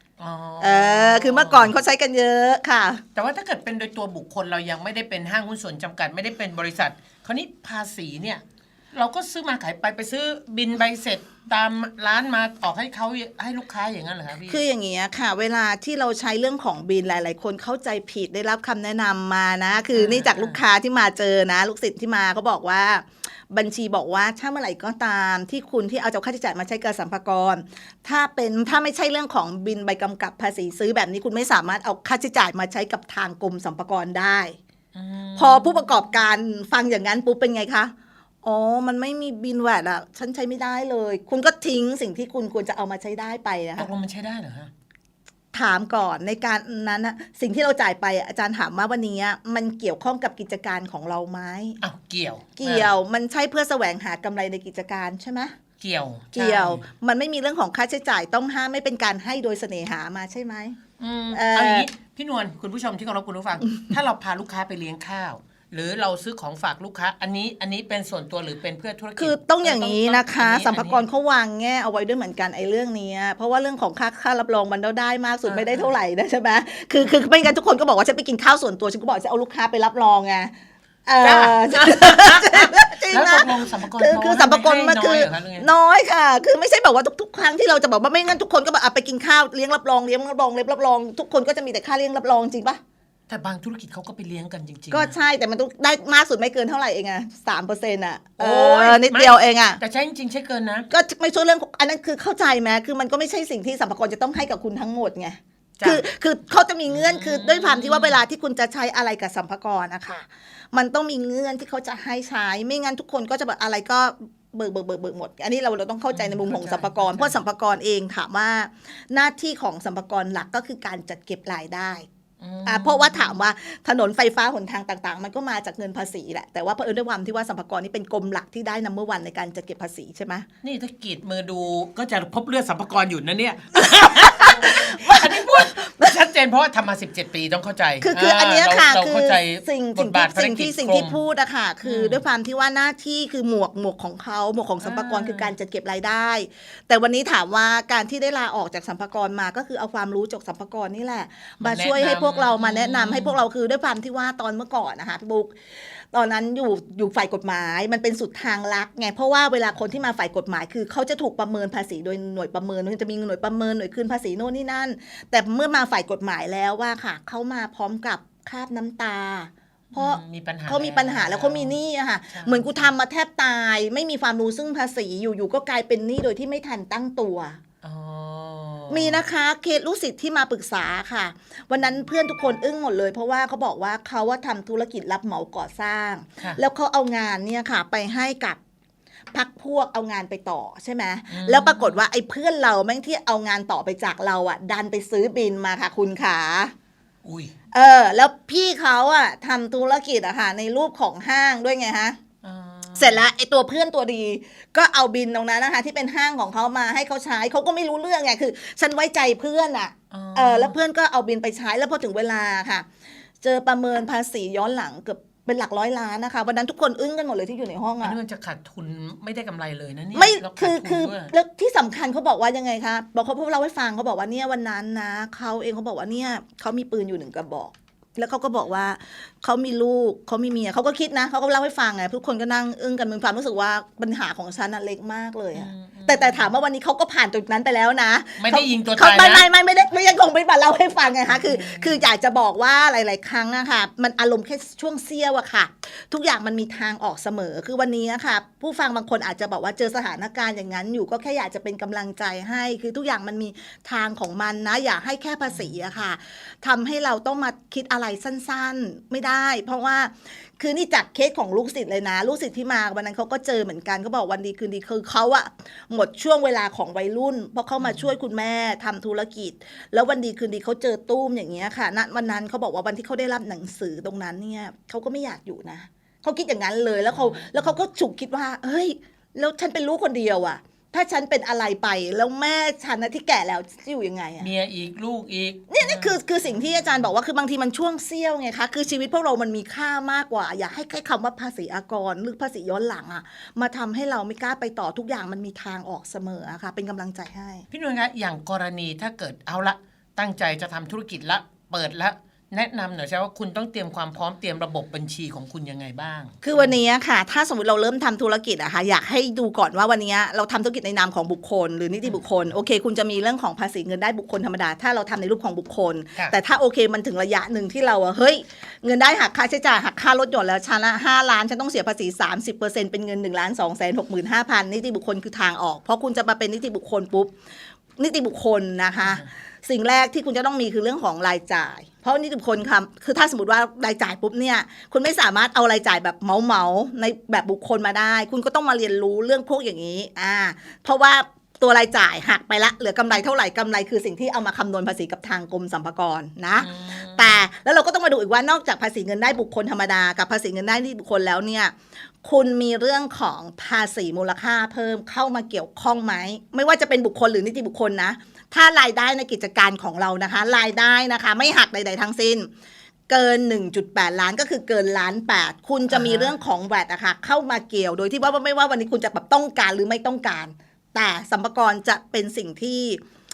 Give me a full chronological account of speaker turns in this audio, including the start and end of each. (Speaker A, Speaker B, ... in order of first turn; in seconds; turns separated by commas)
Speaker A: 0.2-1.7, Speaker B: 0.6-3.0, Speaker A: 3.1-14.6, Speaker B: 14.5-34.6, Speaker A: 19.9-20.6, Speaker A: 34.9-36.0, Speaker B: 35.4-37.9, Speaker B: 38.4-43.9, Speaker A: 43.8-44.7, Speaker B: 45.5-51.8, Speaker A: 51.8-52.9, Speaker B: 52.6-55.5, Speaker A: 55.8-56.8, Speaker B: 56.3-60.8, Speaker A: 61.0-71.0, Speaker B: 61.3-61.9, Speaker B: 69.2-80.5, Speaker A: 75.5-75.9, Speaker B: 81.0-92.8, Speaker A: 81.2-85.7, Speaker A: 93.3-95.1, Speaker B: 94.9-99.8, Speaker A: 98.4-100.9, Speaker B: 100.9-122.0, Speaker A: 105.8-106.0, Speaker A: 106.9-108.2, Speaker A: 116.1-117.3, Speaker A: 122.4-123.4, Speaker B: 122.6-130.5, Speaker A: 130.6-141.2, Speaker B: 133.8-136.2, Speaker B: 138.0-155.5, Speaker A: 141.8-142.2, Speaker A: 144.8-145.5, Speaker A: 151.6-153.4, Speaker B: 156.1-177.6, Speaker A: 169.9-171.7, Speaker A: 172.3-172.8, Speaker A: 177.8-179.2, Speaker B: 178.9-188.6, Speaker B: 189.3-196.7, Speaker A: 191.3-192.0, Speaker A: 197.2-197.5, Speaker B: 197.7-202.2, Speaker A: 202.4-203.2, Speaker B: 202.9-212.9, Speaker A: 210.1-210.8, Speaker B: 213.4-218.2, Speaker A: 218.0-221.3, Speaker B: 220.1-284.5, Speaker A: 235.5-236.5, Speaker A: 238.4-239.4, Speaker A: 241.3-242.0, Speaker A: 267.8-268.1, Speaker A: 277.1-277.7, Speaker A: 284.4-286.9, Speaker B: 285.7-297.6, Speaker A: 297.7-306.7, Speaker B: 306.4-327.3, Speaker B: 328.0-362.5, Speaker A: 346.6-347.4, Speaker B: 363.1-373.0, Speaker A: 365.9-366.3